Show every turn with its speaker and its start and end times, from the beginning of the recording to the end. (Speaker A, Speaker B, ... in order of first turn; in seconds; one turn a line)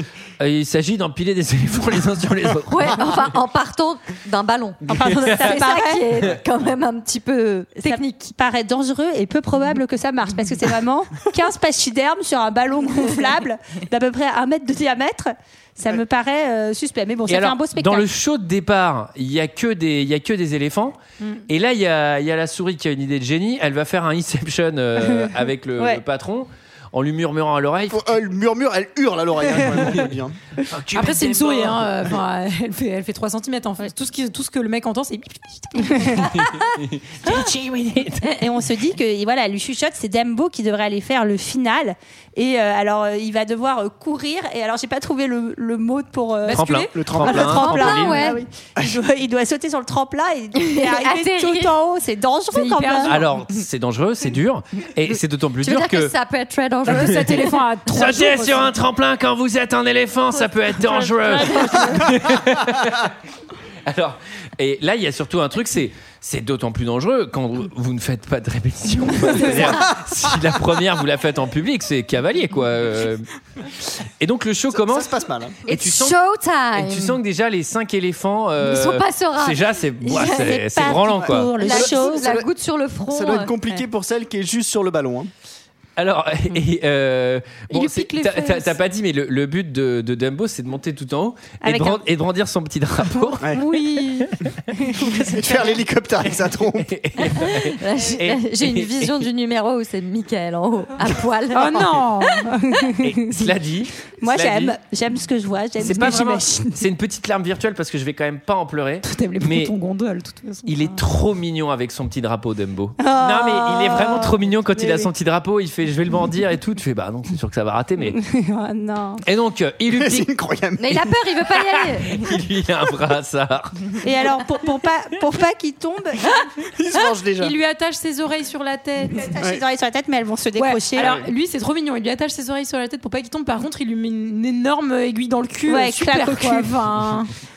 Speaker A: 0.4-3.1
Speaker B: 2.7-8.3
Speaker C: 4.9-6.0
Speaker A: 4.9-5.6
Speaker C: 7.8-18.1
Speaker A: 17.3-21.0
Speaker A: 21.5-28.2
Speaker C: 25.0-26.0
Speaker D: 27.9-30.4
Speaker A: 30.7-31.9
Speaker E: 30.9-36.4
Speaker A: 36.8-38.3
Speaker C: 38.4-53.2
Speaker E: 46.5-47.0
Speaker A: 46.5-48.2
Speaker D: 46.9-47.7
Speaker B: 47.4-48.4
Speaker B: 50.6-51.7
Speaker E: 52.6-53.2
Speaker A: 53.0-56.1
Speaker B: 55.6-57.7
Speaker E: 56.9-58.8
Speaker A: 57.9-63.1
Speaker C: 60.9-62.3
Speaker A: 63.9-73.3
Speaker A: 73.9-75.1
Speaker D: 74.7-75.6
Speaker A: 75.7-76.2
Speaker B: 75.7-77.2
Speaker A: 76.7-81.5
Speaker B: 78.6-80.6
Speaker C: 80.2-82.3
Speaker D: 81.2-82.5
Speaker B: 81.6-83.5
Speaker D: 83.1-85.3
Speaker A: 86.0-93.5
Speaker E: 87.7-88.7
Speaker C: 91.6-92.0
Speaker E: 93.5-94.3
Speaker C: 94.8-95.7
Speaker D: 95.1-96.9
Speaker A: 96.8-99.2
Speaker B: 97.5-102.2
Speaker E: 101.5-102.5
Speaker C: 102.5-103.5
Speaker A: 103.0-104.8
Speaker C: 104.2-106.8
Speaker A: 105.8-109.8
Speaker E: 109.0-110.8
Speaker A: 110.7-118.2
Speaker C: 113.0-115.1
Speaker C: 118.2-119.2
Speaker A: 119.2-120.3
Speaker D: 119.9-121.1
Speaker B: 120.8-122.3
Speaker A: 121.7-123.9
Speaker C: 124.0-126.5
Speaker D: 126.7-127.5
Speaker E: 127.4-129.4
Speaker C: 129.2-131.2
Speaker E: 130.6-137.3
Speaker D: 131.0-131.3
Speaker C: 135.7-136.7